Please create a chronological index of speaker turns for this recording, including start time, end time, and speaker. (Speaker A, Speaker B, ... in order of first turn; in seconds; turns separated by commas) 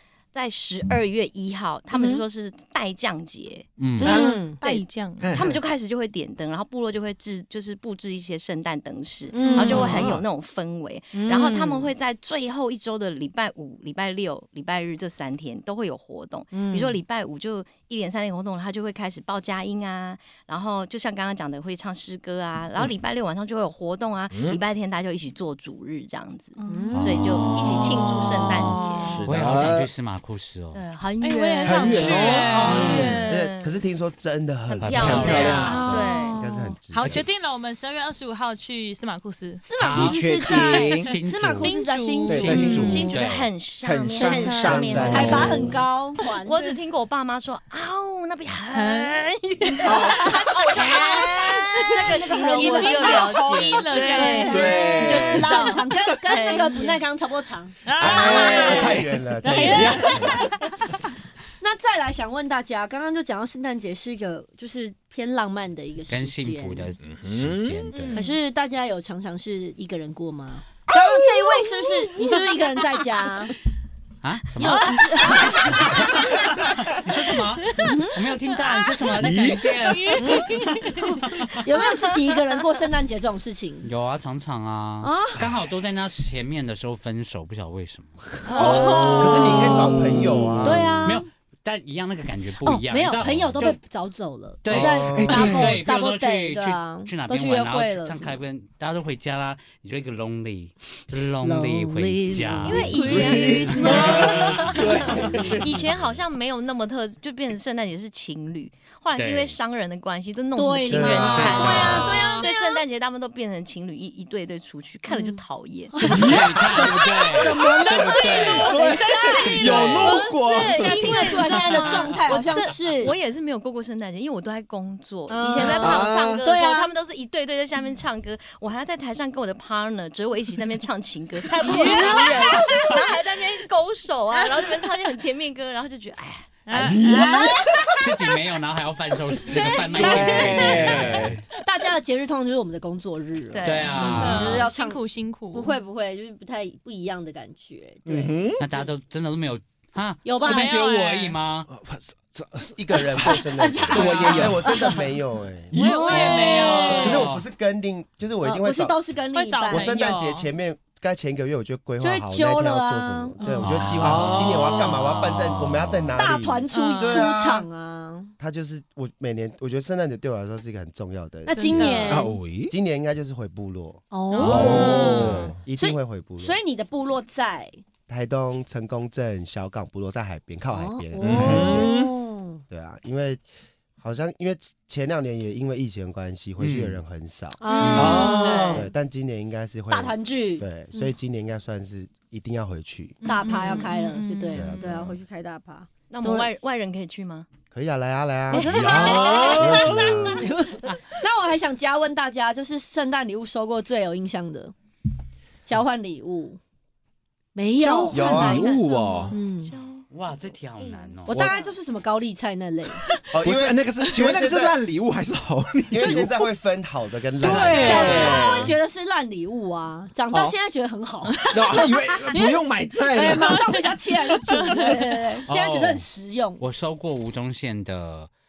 Speaker A: 0.3-29.2, Speaker B: 1.9-2.2, Speaker C: 3.8-4.2, Speaker D: 4.0-4.5, Speaker B: 4.0-4.6, Speaker E: 4.1-5.4, Speaker D: 5.2-5.6, Speaker B: 9.3-10.1, Speaker E: 9.5-9.8, Speaker D: 9.5-10.2, Speaker C: 9.7-10.0, Speaker B: 11.1-11.9, Speaker B: 16.5-17.0, Speaker D: 24.3-24.6, Speaker E: 26.6-26.9, Speaker B: 26.7-27.4, Speaker C: 26.9-30.8, Speaker E: 28.3-29.3, Speaker D: 29.1-29.9, Speaker A: 30.7-33.8, Speaker E: 31.2-33.4, Speaker D: 31.6-33.2, Speaker C: 32.6-33.0, Speaker F: 33.3-37.3, Speaker A: 34.7-36.4, Speaker C: 34.8-35.9, Speaker D: 34.9-35.8, Speaker B: 35.5-36.7, Speaker E: 35.6-36.3, Speaker E: 36.9-39.6, Speaker B: 39.6-43.1, Speaker C: 39.8-41.7, Speaker D: 39.9-41.1, Speaker E: 40.5-41.0, Speaker E: 41.5-43.0, Speaker D: 42.3-43.1, Speaker C: 42.3-43.5, Speaker A: 42.8-45.8, Speaker D: 43.8-45.8, Speaker E: 44.2-44.8, Speaker F: 44.6-45.5, Speaker B: 45.1-46.6, Speaker A: 46.4-57.0, Speaker E: 48.7-55.3, Speaker D: 49.8-50.3, Speaker B: 51.9-60.5, Speaker D: 54.5-55.7, Speaker E: 56.6-56.9, Speaker E: 57.8-60.6, Speaker D: 58.0-60.3, Speaker F: 58.0-60.5, Speaker B: 61.6-66.9, Speaker C: 66.1-68.2, Speaker D: 67.0-67.9, Speaker E: 67.9-68.3, Speaker B: 68.0-73.5, Speaker E: 71.4-72.8, Speaker C: 74.2-80.2, Speaker B: 74.5-76.2, Speaker E: 75.3-75.7, Speaker B: 77.8-78.2, Speaker D: 79.1-80.2, Speaker E: 80.0-81.1, Speaker B: 80.1-80.8, Speaker B: 81.5-83.9, Speaker C: 83.8-88.7, Speaker B: 85.0-85.4, Speaker E: 88.4-89.9, Speaker B: 88.5-91.3, Speaker F: 88.6-91.0, Speaker C: 90.6-93.8, Speaker B: 92.6-98.4, Speaker C: 94.6-106.0, Speaker F: 94.7-95.5, Speaker D: 95.1-95.8, Speaker B: 101.4-105.1, Speaker A: 102.6-116.0, Speaker D: 102.8-105.7, Speaker C: 109.2-109.5, Speaker B: 110.5-112.8, Speaker F: 110.9-112.0, Speaker C: 111.3-112.4, Speaker B: 115.1-115.4, Speaker B: 115.9-123.2, Speaker D: 116.0-116.5, Speaker C: 116.1-118.8, Speaker E: 117.6-120.0, Speaker D: 118.7-121.5, Speaker C: 119.7-120.1, Speaker A: 120.0-136.9, Speaker B: 125.3-126.9, Speaker D: 125.6-126.4, Speaker E: 131.6-133.0, Speaker D: 131.8-132.9, Speaker E: 136.7-137.6, Speaker D: 136.8-138.0, Speaker B: 137.0-137.6, Speaker C: 138.0-141.4, Speaker E: 139.6-140.7, Speaker D: 139.9-141.4, Speaker B: 141.6-145.0, Speaker A: 143.5-144.2, Speaker C: 143.6-144.7, Speaker E: 143.9-145.7, Speaker B: 145.5-148.3, Speaker D: 148.0-148.6, Speaker C: 148.6-151.7, Speaker B: 150.2-150.8, Speaker E: 150.4-151.4, Speaker D: 151.7-153.4, Speaker F: 152.7-155.7, Speaker B: 153.2-155.1, Speaker D: 153.9-154.8, Speaker D: 155.7-156.6, Speaker E: 155.7-157.2, Speaker B: 155.7-157.2, Speaker F: 156.9-159.0, Speaker C: 157.0-157.4, Speaker B: 158.4-160.0, Speaker E: 159.3-160.5, Speaker F: 159.7-167.7, Speaker B: 162.0-163.6, Speaker E: 163.4-163.8, Speaker C: 163.6-166.2, Speaker D: 164.0-164.8, Speaker B: 166.2-168.3, Speaker E: 166.7-167.3, Speaker F: 168.4-172.1, Speaker B: 171.5-172.4, Speaker E: 171.5-172.4, Speaker D: 172.1-172.7, Speaker F: 172.7-176.6, Speaker B: 174.1-177.8, Speaker E: 174.3-175.4, Speaker D: 174.4-175.5, Speaker F: 178.1-181.9, Speaker B: 180.7-182.6, Speaker D: 181.2-182.1, Speaker F: 182.7-183.4, Speaker F: 184.0-188.1, Speaker C: 186.6-187.0, Speaker B: 187.6-188.8, Speaker A: 187.8-188.2, Speaker D: 187.9-188.8, Speaker E: 187.9-188.8, Speaker F: 188.7-193.2, Speaker B: 189.9-191.1, Speaker E: 193.2-194.8, Speaker B: 193.2-196.5, Speaker F: 194.5-195.2, Speaker A: 196.1-197.5, Speaker F: 197.7-198.9, Speaker B: 198.5-204.7, Speaker D: 198.6-199.8, Speaker A: 199.1-199.7, Speaker F: 199.4-200.4, Speaker B: 205.7-206.6, Speaker B: 207.5-208.8, Speaker D: 207.8-209.4, Speaker A: 208.0-210.1, Speaker F: 208.1-208.7, Speaker B: 209.3-209.7, Speaker C: 210.1-211.5, Speaker A: 210.8-211.7, Speaker B: 211.3-213.0, Speaker F: 213.3-214.8, Speaker D: 213.4-216.4, Speaker F: 215.9-218.4, Speaker D: 217.4-218.7, Speaker C: 217.6-218.3, Speaker B: 217.7-226.6, Speaker E: 217.9-218.4, Speaker D: 221.5-223.7, Speaker E: 223.5-225.2, Speaker C: 225.5-226.0, Speaker C: 226.6-228.3